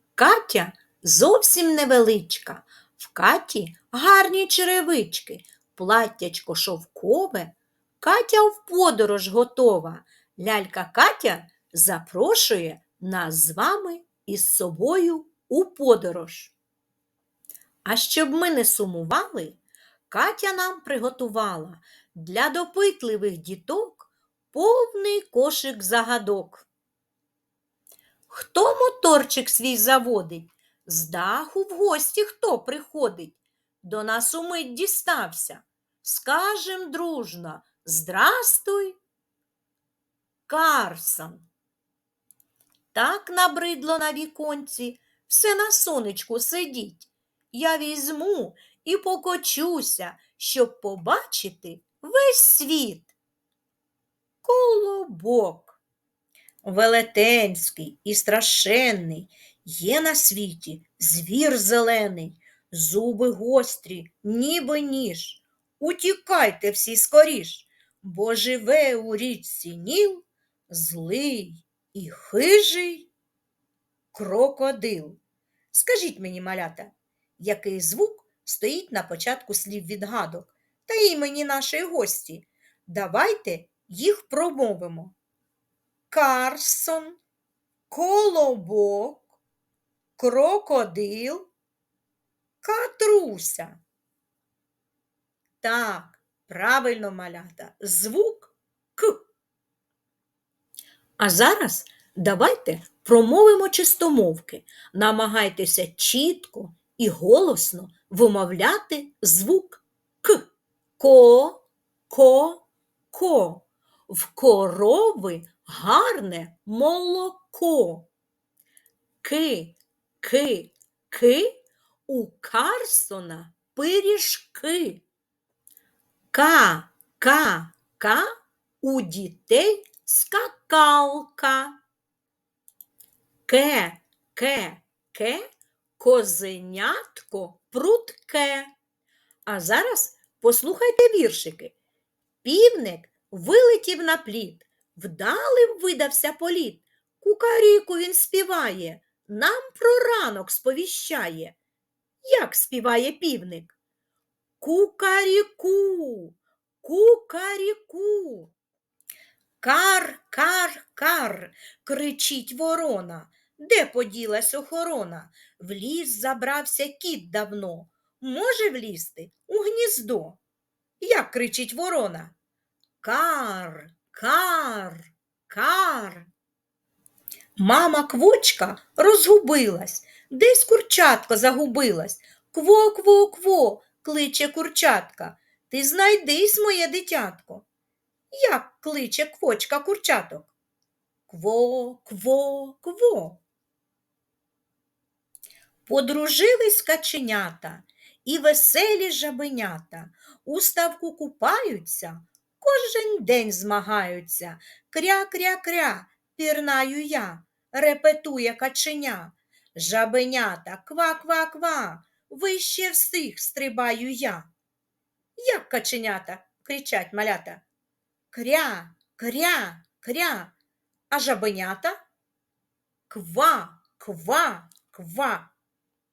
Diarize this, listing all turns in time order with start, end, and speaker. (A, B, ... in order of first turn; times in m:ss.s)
0:00.2-0:16.5 A
0:17.8-0:26.7 A
0:28.3-0:39.0 A
0:40.5-0:41.5 A
0:42.9-0:53.1 A
0:54.4-0:55.8 A
0:56.6-1:13.1 A
1:14.1-1:15.2 A
1:15.7-1:25.2 A
1:26.1-1:27.2 A
1:27.9-1:29.3 A
1:30.2-1:31.5 A
1:32.6-1:33.8 A
1:35.6-1:39.2 A
1:41.2-1:50.5 A
1:51.0-1:58.1 A
1:59.2-2:05.0 A
2:06.3-2:08.3 A
2:08.8-2:11.8 A
2:13.5-2:15.5 A
2:16.0-2:18.7 A
2:19.5-2:21.8 A
2:22.4-2:31.6 A
2:32.2-2:33.8 A
2:34.6-2:38.5 A
2:39.6-2:50.4 A
2:51.0-2:52.3 A
2:53.0-2:56.3 A
2:57.6-3:07.7 A
3:08.3-3:10.5 A
3:11.3-3:13.4 A
3:15.9-3:34.5 A
3:35.4-3:37.6 A
3:38.3-3:40.5 A
3:41.1-3:42.0 A
3:43.1-3:45.5 A